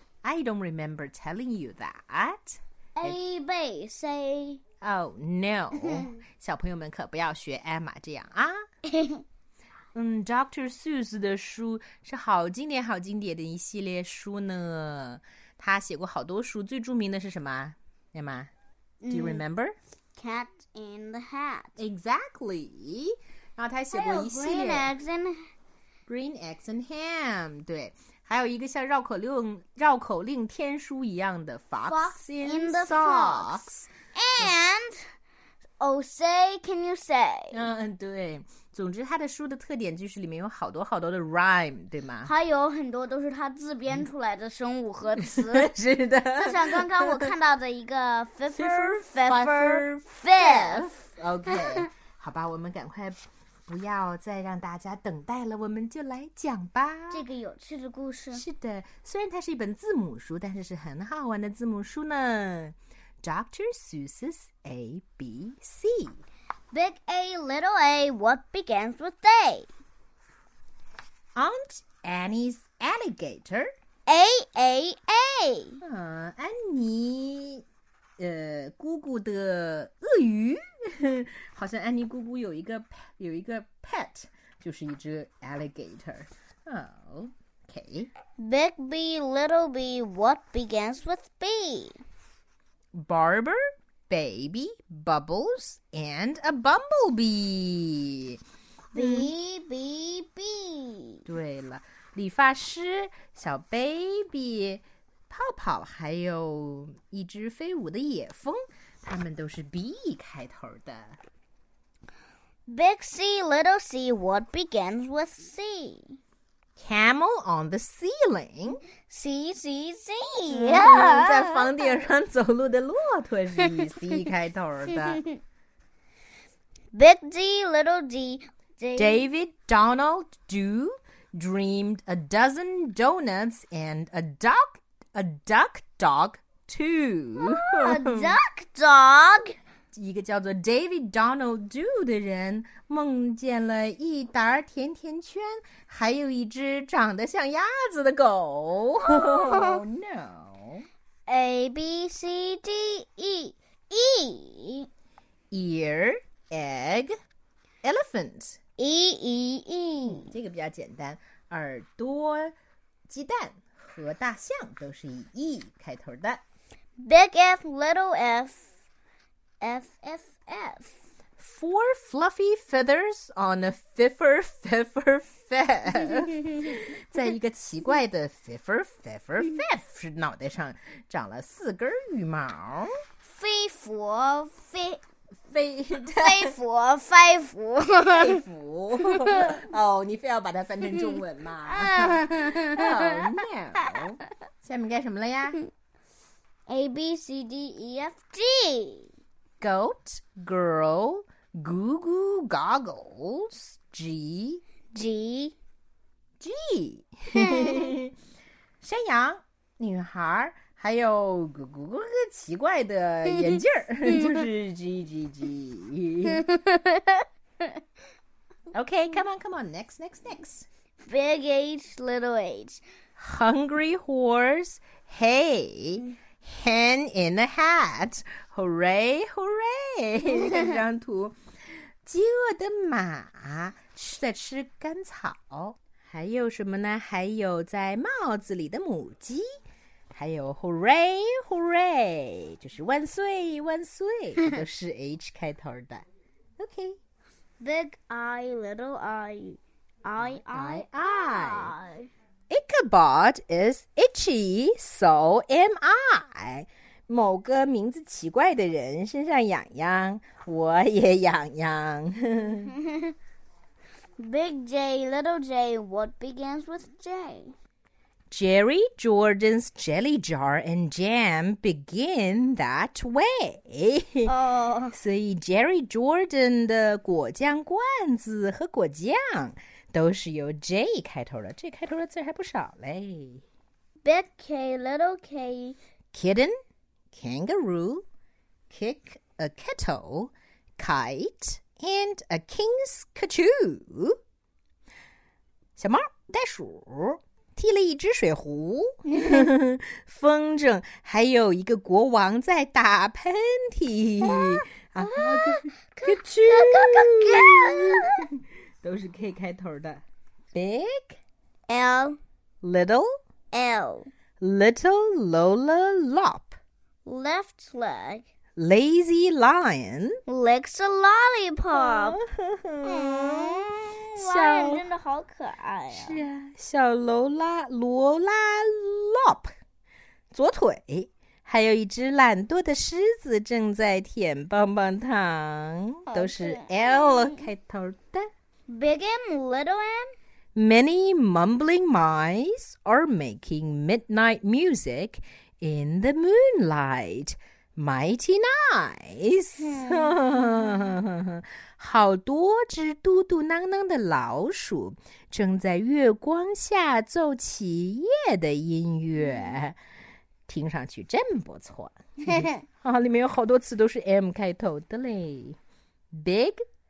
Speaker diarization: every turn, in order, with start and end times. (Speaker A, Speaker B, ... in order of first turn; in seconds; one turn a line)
Speaker A: 0.2-3.2
Speaker B: 3.0-4.6
Speaker A: 4.8-8.6
Speaker B: 5.8-6.1
Speaker B: 8.9-9.2
Speaker A: 9.9-18.5
Speaker B: 19.0-19.4
Speaker A: 19.1-19.8
Speaker B: 20.1-21.8
Speaker A: 21.8-24.9
Speaker B: 23.9-25.5
Speaker A: 26.1-34.5
Speaker B: 31.8-35.0
Speaker B: 35.8-37.6
Speaker A: 37.5-42.3
Speaker B: 42.2-45.7
Speaker A: 45.2-47.3
Speaker B: 46.4-51.0
Speaker A: 48.5-57.2
Speaker B: 51.5-51.9
Speaker B: 57.1-58.4
Speaker A: 58.3-66.2
Speaker B: 66.7-69.7
Speaker A: 71.3-73.7
Speaker B: 74.1-75.8
Speaker A: 75.8-77.6
Speaker A: 78.2-88.1
Speaker B: 88.4-92.0
Speaker A: 92.9-98.4
Speaker A: 98.9-99.3
Speaker B: 98.9-101.2
Speaker A: 101.3-111.2
Speaker B: 112.7-116.2
Speaker A: 116.8-118.8
Speaker B: 119.1-121.7
Speaker A: 120.5-125.2
Speaker B: 126.9-129.2
Speaker A: 129.0-138.3
Speaker B: 137.4-139.6
Speaker A: 139.9-150.9
Speaker B: 149.1-149.8
Speaker B: 151.3-154.9
Speaker A: 155.5-157.1
Speaker A: 157.8-158.6
Speaker B: 158.8-160.3
Speaker A: 160.0-162.5
Speaker A: 163.1-166.4
Speaker B: 167.0-168.7
Speaker B: 169.6-171.0
Speaker A: 171.4-182.9
Speaker B: 183.2-185.0
Speaker A: 185.4-186.6
Speaker B: 186.1-188.4
Speaker A: 188.1-195.6
Speaker B: 189.3-189.6
Speaker B: 191.7-193.3
Speaker B: 196.7-199.1
Speaker A: 199.6-204.6
Speaker B: 204.9-205.6
Speaker A: 206.4-208.1
Speaker B: 207.3-207.9
Speaker A: 208.8-216.4
Speaker B: 213.3-214.4
Speaker B: 216.3-217.8
Speaker A: 218.7-220.7
Speaker B: 221.1-222.8
Speaker A: 223.2-231.4
Speaker B: 230.4-230.8
Speaker A: 232.1-239.4
Speaker A: 240.1-246.1
Speaker A: 246.6-247.0
Speaker B: 247.6-252.1
Speaker A: 250.2-251.8
Speaker A: 252.5-262.7
Speaker B: 262.8-263.1
Speaker B: 264.2-267.5
Speaker A: 268.3-274.3
Speaker B: 274.3-274.9
Speaker A: 274.9-283.4
Speaker B: 284.0-285.8
Speaker A: 286.1-286.5
Speaker A: 287.1-288.0
Speaker A: 288.7-294.2
Speaker A: 295.8-308.3
Speaker B: 299.1-299.5
Speaker B: 304.2-308.2
Speaker A: 308.8-311.2
Speaker B: 311.7-312.2
Speaker A: 312.6-313.1
Speaker B: 313.5-314.1
Speaker A: 314.4-316.6
Speaker B: 317.1-318.3
Speaker A: 318.6-320.2
Speaker B: 320.3-322.2
Speaker A: 321.7-324.9
Speaker B: 322.8-326.2
Speaker A: 325.9-329.5
Speaker A: 330.3-338.3
Speaker B: 336.1-337.4
Speaker B: 338.7-340.1
Speaker A: 340.6-359.8
Speaker B: 349.6-351.0
Speaker B: 359.2-359.6
Speaker A: 360.5-365.6
Speaker B: 362.2-362.6
Speaker A: 366.1-366.6